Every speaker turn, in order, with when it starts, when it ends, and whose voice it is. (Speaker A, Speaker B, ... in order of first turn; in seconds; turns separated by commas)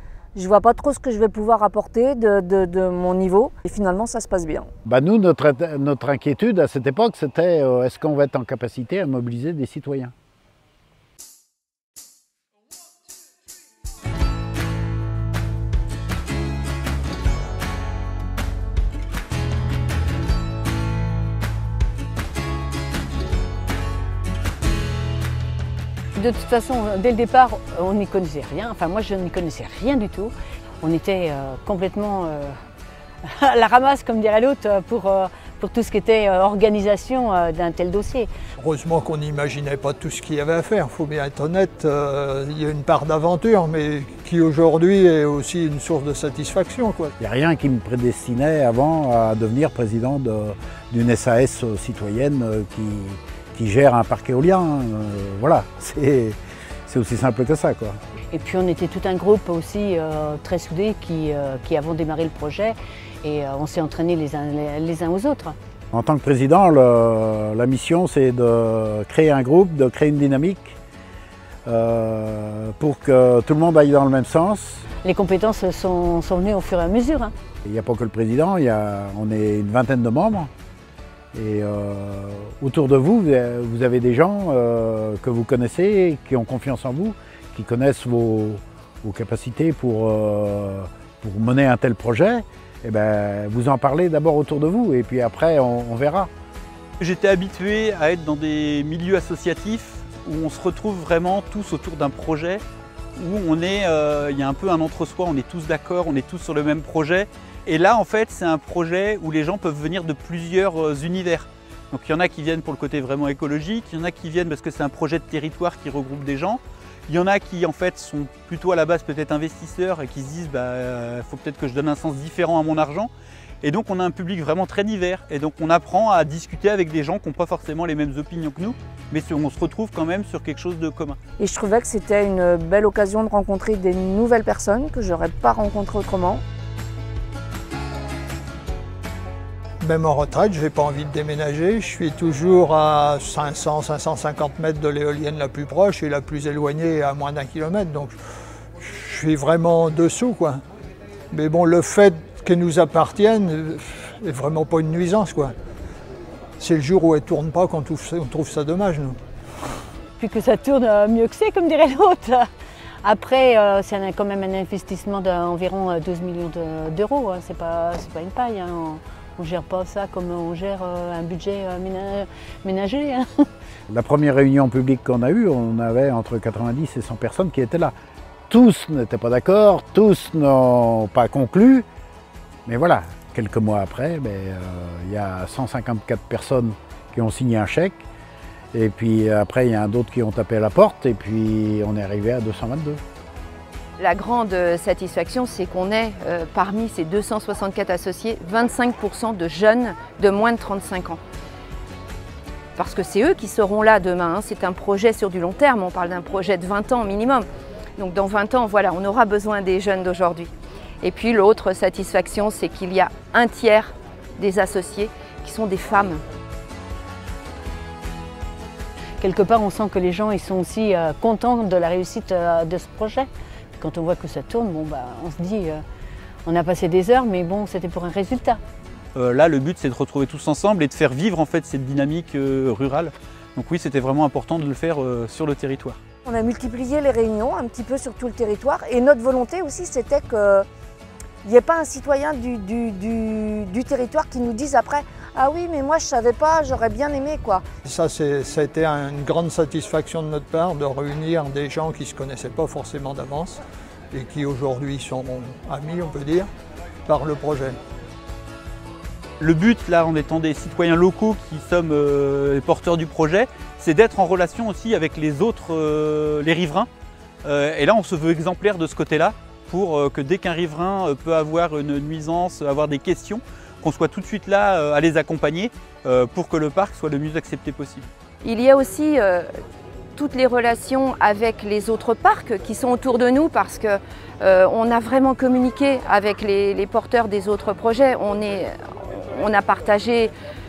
Speaker A: 0.3-4.7, Speaker B: 4.8-10.1, Speaker C: 26.1-32.5, Speaker C: 33.3-38.3, Speaker D: 38.6-47.1, Speaker B: 47.2-58.0, Speaker C: 58.3-65.5, Speaker B: 65.9-70.8, Speaker B: 71.7-74.8, Speaker C: 75.0-77.3, Speaker B: 77.6-80.5, Speaker B: 81.3-96.3, Speaker E: 97.0-102.6, Speaker E: 103.2-123.1, Speaker E: 123.6-131.2, Speaker A: 131.4-136.4, Speaker D: 139.8-148.2, Speaker D: 148.8-150.6, Speaker D: 151.3-155.5, Speaker D: 156.6-159.1, Speaker C: 160.2-162.5, Speaker C: 163.0-173.5, Speaker B: 173.9-177.9, Speaker B: 178.5-181.8, Speaker B: 182.7-188.0, Speaker B: 188.7-193.0, Speaker F: 194.0-201.2, Speaker F: 202.8-207.4, Speaker F: 208.0-216.2, Speaker C: 219.2-225.8, Speaker C: 226.4-228.6, Speaker E: 229.1-236.0, Speaker A: 236.2-240.7, Speaker A: 241.4-247.6, Speaker D: 247.8-253.6, Speaker D: 254.1-256.5, Speaker D: 257.1-257.8, Speaker E: 259.4-266.9, Speaker E: 267.4-278.1, Speaker F: 278.4-279.5, Speaker F: 280.1-290.3